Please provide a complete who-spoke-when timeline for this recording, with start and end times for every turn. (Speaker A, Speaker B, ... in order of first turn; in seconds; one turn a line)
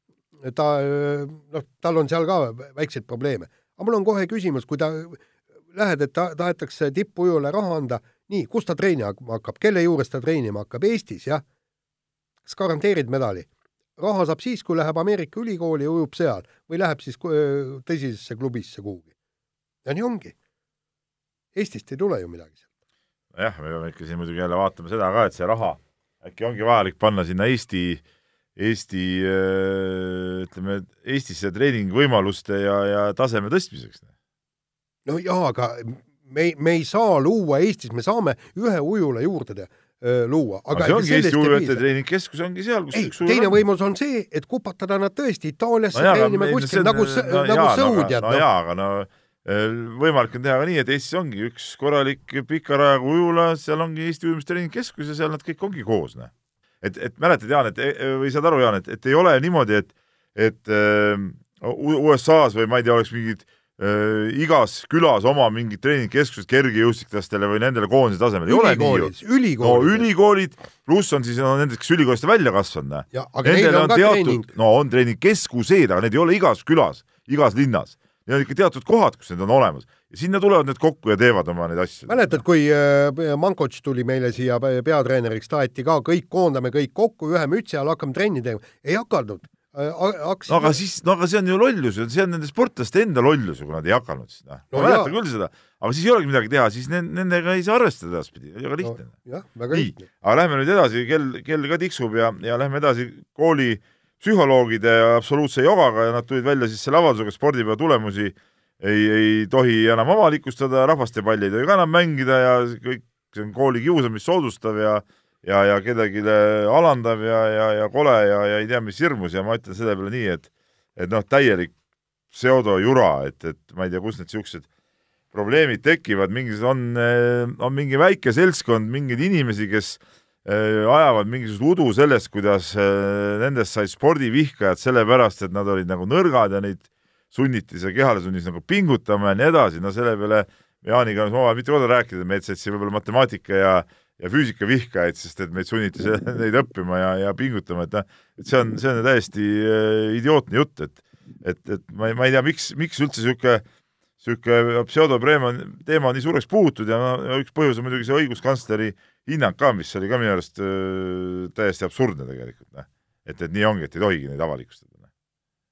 Speaker A: 0.4-5.2
Speaker A: 5.7-11.4
Speaker A: 12.4-13.5
Speaker A: 14.0-19.1
Speaker A: 19.8-20.3
Speaker A: 21.5-22.6
Speaker B: 23.3-28.0
Speaker B: 28.6-34.1
Speaker A: 35.1-41.8
Speaker B: 40.7-43.6
Speaker A: 42.9-48.4
Speaker B: 45.9-56.3
Speaker B: 56.8-82.4
Speaker A: 68.5-70.1
Speaker A: 73.1-74.5
Speaker A: 82.1-90.8
Speaker B: 90.5-99.1
Speaker A: 94.7-95.1
Speaker A: 98.8-100.1
Speaker B: 99.7-121.7
Speaker B: 122.3-124.7
Speaker B: 125.3-153.6
Speaker B: 154.2-165.1